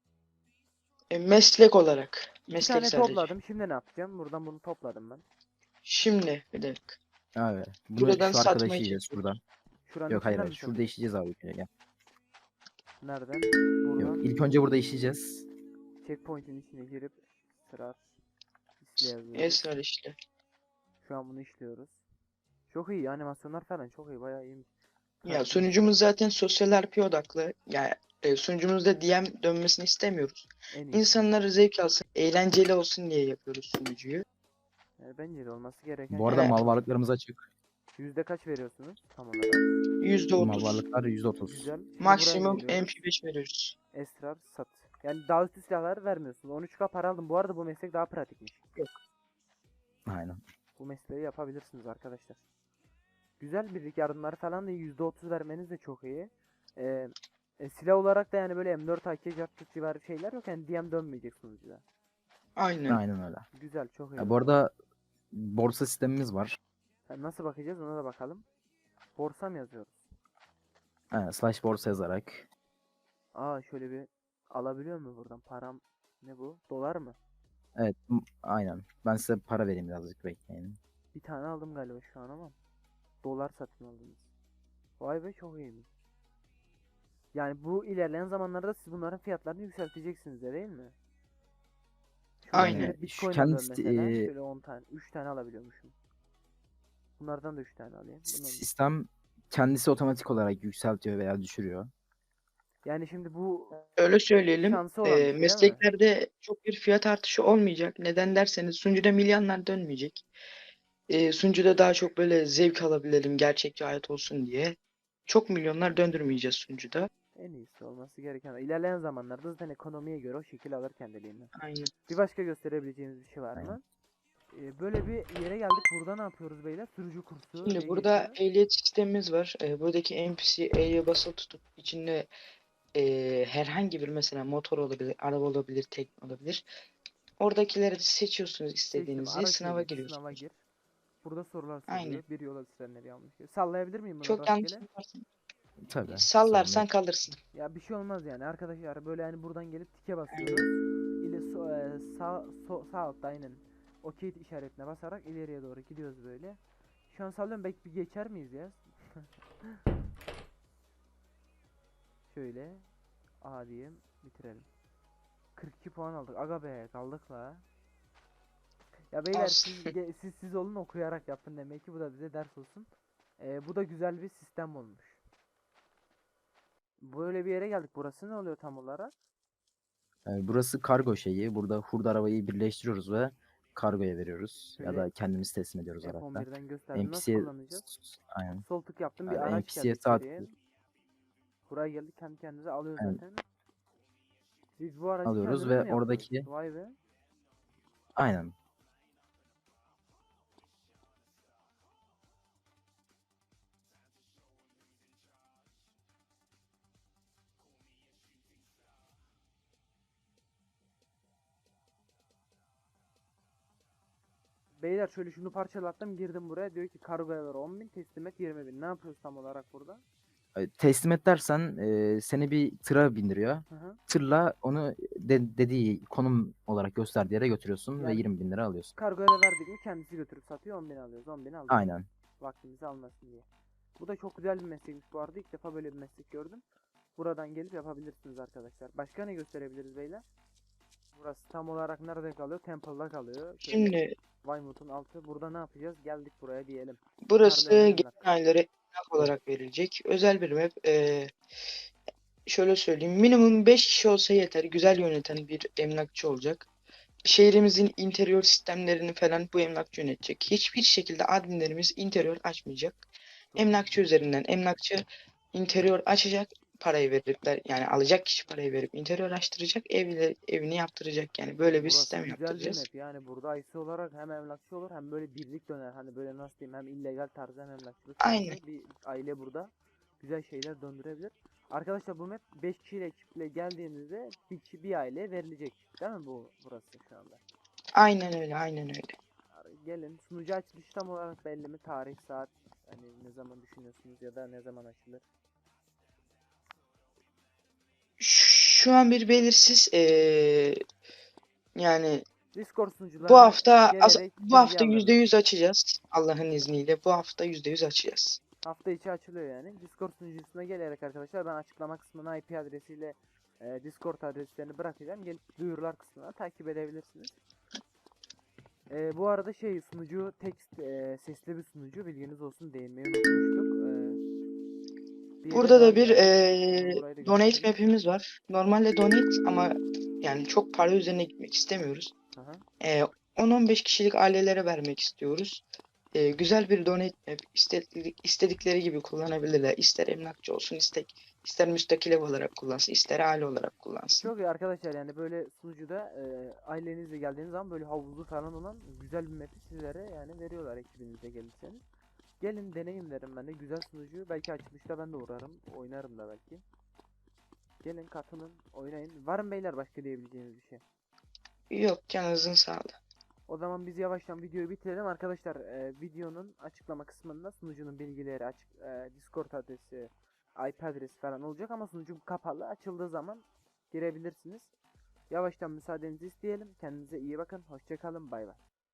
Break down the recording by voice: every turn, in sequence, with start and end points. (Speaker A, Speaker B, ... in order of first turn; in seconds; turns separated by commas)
Speaker A: 1.1-3.3, Speaker B: 2.6-5.2, Speaker A: 5.8-7.0, Speaker C: 7.3-9.4, Speaker A: 8.0-9.2, Speaker B: 9.8-10.9, Speaker C: 10.1-11.7, Speaker B: 13.0-14.3, Speaker C: 14.0-15.5, Speaker B: 16.0-18.0, Speaker B: 18.8-19.6, Speaker A: 19.3-20.2, Speaker B: 21.0-22.0, Speaker B: 22.7-24.7, Speaker B: 25.2-26.0, Speaker A: 25.2-34.2, Speaker B: 30.7-31.3, Speaker B: 35.0-36.7, Speaker C: 36.1-37.5, Speaker A: 36.3-36.5, Speaker B: 37.9-39.6, Speaker A: 40.0-40.8, Speaker C: 40.4-41.7, Speaker B: 41.4-42.9, Speaker A: 42.0-43.8, Speaker B: 43.9-48.6, Speaker C: 50.0-50.4, Speaker B: 50.8-52.4, Speaker B: 53.4-61.8, Speaker A: 62.6-63.0, Speaker C: 62.9-63.5, Speaker B: 63.5-64.5, Speaker C: 64.2-64.7, Speaker C: 65.3-66.6, Speaker B: 67.1-68.4, Speaker B: 69.2-70.0, Speaker C: 71.1-72.5, Speaker B: 73.3-77.2, Speaker C: 77.8-80.8, Speaker B: 81.1-82.5, Speaker B: 83.2-84.3, Speaker B: 85.0-85.9, Speaker B: 87.3-90.9, Speaker B: 92.4-95.9, Speaker A: 92.5-92.9, Speaker C: 92.5-94.3, Speaker B: 97.2-98.7, Speaker C: 98.3-101.9, Speaker B: 102.8-103.8, Speaker A: 103.8-110.2, Speaker B: 104.6-105.9, Speaker A: 111.1-117.1, Speaker B: 117.3-121.5, Speaker A: 121.5-121.9, Speaker B: 122.1-123.8, Speaker B: 124.5-128.4, Speaker A: 127.6-132.3, Speaker A: 132.9-136.6, Speaker A: 137.4-140.4, Speaker B: 138.9-140.6, Speaker B: 141.2-144.8, Speaker A: 141.9-142.2, Speaker A: 144.2-145.2, Speaker C: 145.8-146.9, Speaker A: 146.1-147.4, Speaker B: 147.5-159.8, Speaker A: 150.3-150.7, Speaker B: 162.3-162.9, Speaker B: 163.4-164.7, Speaker B: 165.6-167.6, Speaker B: 169.1-172.9, Speaker A: 169.3-169.9, Speaker B: 173.4-175.2, Speaker B: 177.0-179.1, Speaker C: 180.3-188.6, Speaker B: 184.7-185.1, Speaker B: 186.0-187.9, Speaker B: 188.6-190.5, Speaker C: 189.3-190.5, Speaker B: 191.7-193.4, Speaker B: 194.8-197.0, Speaker C: 195.2-196.5, Speaker C: 198.2-198.5, Speaker B: 214.8-220.0, Speaker C: 220.5-228.9, Speaker B: 223.7-224.0, Speaker B: 228.0-228.3, Speaker B: 228.9-233.4, Speaker C: 231.7-232.1, Speaker B: 234.0-236.6, Speaker B: 237.2-240.3, Speaker B: 241.1-248.2, Speaker A: 243.6-244.1, Speaker A: 247.3-251.3, Speaker A: 252.5-256.7, Speaker A: 257.2-263.0, Speaker B: 263.6-264.1, Speaker A: 263.6-272.8, Speaker B: 271.7-287.4, Speaker A: 278.2-278.6, Speaker A: 287.9-289.1, Speaker B: 289.5-295.2, Speaker A: 298.2-300.8, Speaker A: 301.8-302.2, Speaker B: 302.5-305.2, Speaker A: 303.2-308.4, Speaker B: 308.6-317.4, Speaker B: 318.9-324.2, Speaker B: 325.4-327.7, Speaker A: 325.5-332.1, Speaker B: 332.3-332.6, Speaker A: 332.8-344.3, Speaker B: 344.2-351.8, Speaker B: 352.4-356.6, Speaker B: 357.8-360.8, Speaker A: 361.7-363.0, Speaker B: 363.5-374.7, Speaker B: 375.3-378.6